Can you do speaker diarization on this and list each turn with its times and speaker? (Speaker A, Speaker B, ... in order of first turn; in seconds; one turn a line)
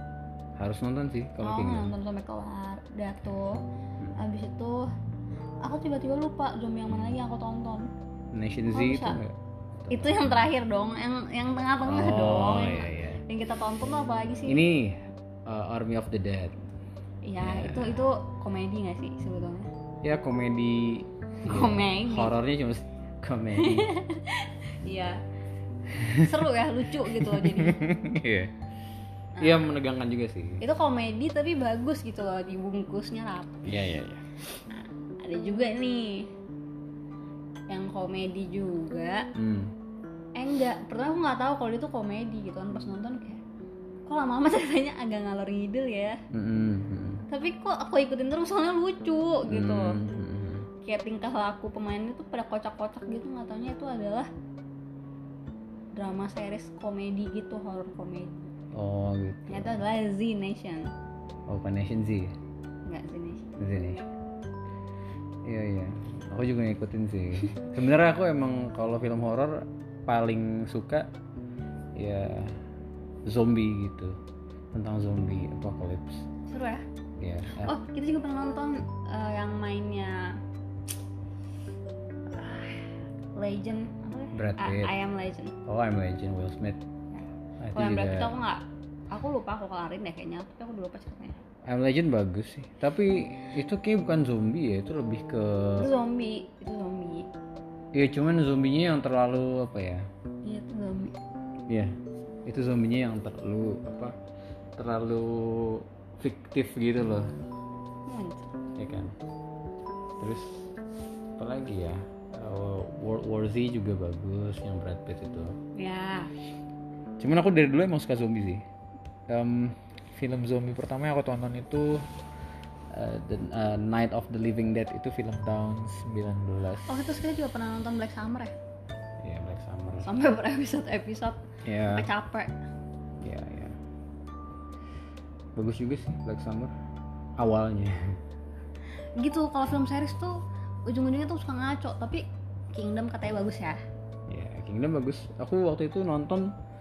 Speaker A: 0.6-1.9
Speaker B: 1.4-3.6
Speaker B: 4.2-4.9
Speaker B: 5.6-7.9
Speaker A: 8.3-10.4
Speaker B: 8.7-9.2
Speaker B: 9.9-14.6
Speaker A: 11.8-13.2
Speaker A: 14.5-16.6
Speaker B: 17.2-19.7
Speaker A: 17.4-18.0
Speaker A: 20.0-23.9
Speaker B: 21.4-22.3
Speaker B: 23.6-25.2
Speaker A: 26.0-26.3
Speaker B: 26.0-27.9
Speaker A: 27.1-28.5
Speaker B: 29.4-29.7
Speaker A: 29.4-30.6
Speaker B: 30.6-33.7
Speaker A: 33.6-34.4
Speaker B: 34.7-36.3
Speaker B: 37.7-39.3
Speaker A: 39.4-39.7
Speaker B: 40.4-43.4
Speaker B: 44.1-46.2
Speaker A: 46.3-47.2
Speaker B: 47.3-50.0
Speaker A: 49.5-50.7
Speaker B: 50.8-54.3
Speaker B: 55.9-58.5
Speaker A: 58.7-59.8
Speaker B: 59.5-60.9
Speaker A: 61.5-62.4
Speaker B: 62.9-63.5
Speaker A: 63.6-64.0
Speaker A: 65.4-71.1
Speaker A: 72.0-72.6
Speaker A: 73.3-74.2
Speaker A: 74.7-76.3
Speaker B: 76.5-76.8
Speaker A: 77.2-77.7
Speaker B: 77.6-80.4
Speaker B: 82.3-82.8
Speaker B: 83.4-85.6
Speaker A: 84.3-84.9
Speaker A: 85.7-86.8
Speaker B: 87.1-91.4
Speaker A: 87.6-88.3
Speaker A: 91.7-95.9
Speaker B: 95.8-97.3
Speaker A: 97.9-100.1
Speaker B: 100.5-101.2
Speaker A: 101.7-104.2
Speaker A: 104.8-107.3
Speaker B: 108.1-108.6
Speaker A: 108.8-109.1
Speaker A: 110.2-110.7
Speaker A: 111.4-115.6
Speaker B: 115.8-116.3
Speaker A: 117.2-118.7
Speaker A: 119.3-122.1
Speaker A: 122.9-127.1
Speaker B: 126.9-128.5
Speaker A: 129.2-130.1
Speaker B: 130.0-132.5
Speaker A: 131.7-132.1
Speaker A: 133.2-133.8
Speaker A: 135.6-136.7
Speaker A: 137.4-138.2
Speaker B: 139.2-143.8
Speaker A: 144.3-146.5